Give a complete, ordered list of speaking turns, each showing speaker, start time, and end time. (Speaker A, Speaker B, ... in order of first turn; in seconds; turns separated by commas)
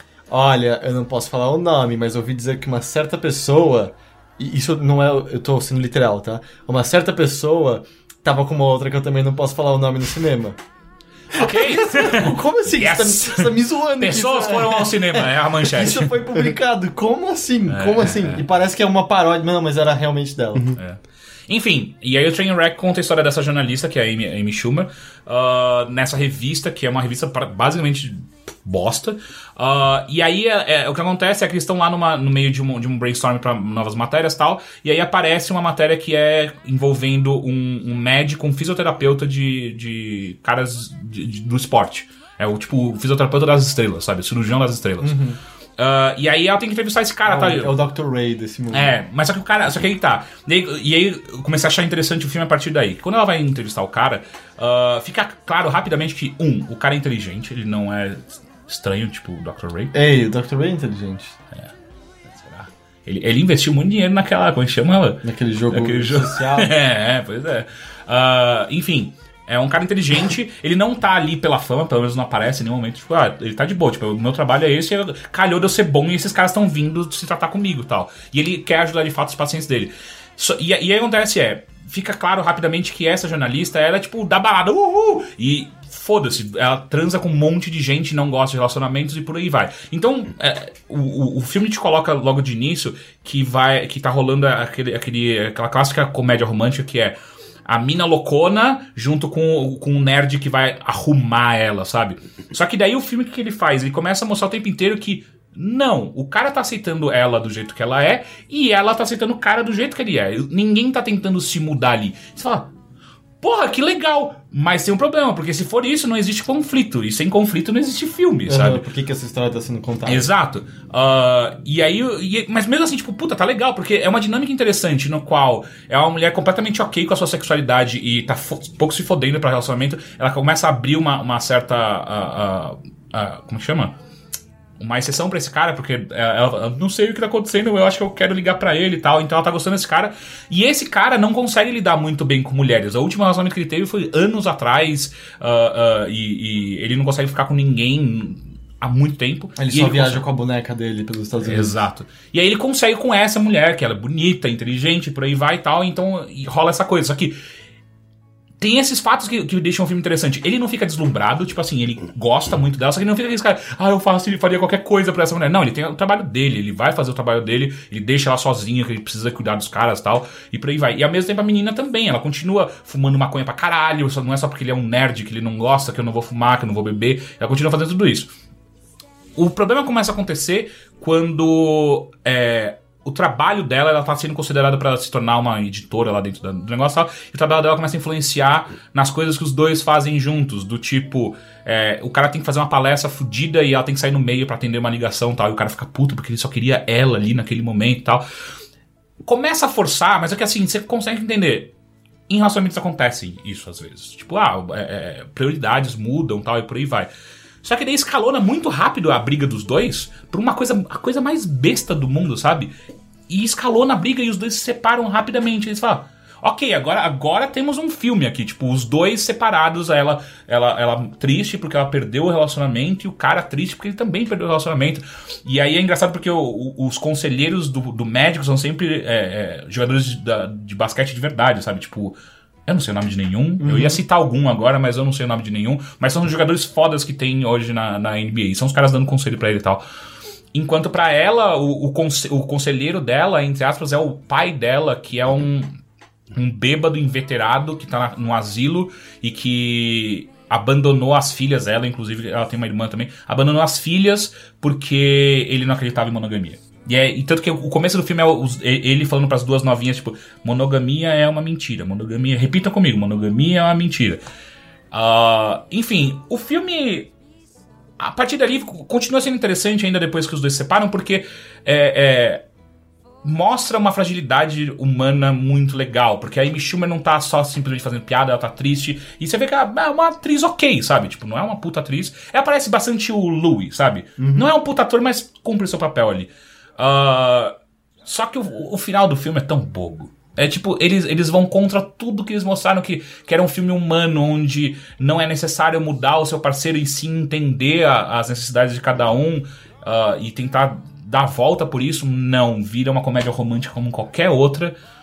Speaker A: 0.3-10.6, Speaker B: 11.3-16.2, Speaker A: 11.4-20.7, Speaker B: 17.7-18.4, Speaker B: 20.8-45.2, Speaker A: 45.0-45.4, Speaker B: 45.8-47.8, Speaker A: 47.2-49.0, Speaker B: 48.7-59.9, Speaker A: 59.9-61.4, Speaker B: 62.3-112.7, Speaker A: 65.2-66.7, Speaker B: 113.4-118.9, Speaker A: 118.5-120.3, Speaker B: 120.1-133.9, Speaker B: 134.8-150.2, Speaker A: 149.6-151.8, Speaker B: 151.4-157.4, Speaker B: 158.6-178.3, Speaker B: 179.4-198.3, Speaker B: 199.2-201.7, Speaker B: 202.3-207.1, Speaker B: 207.6-212.7, Speaker B: 213.3-239.8, Speaker A: 233.6-234.0, Speaker B: 240.5-245.7, Speaker B: 246.3-264.2, Speaker B: 264.9-267.1, Speaker B: 268.0-272.4, Speaker B: 273.2-304.8, Speaker A: 284.2-284.5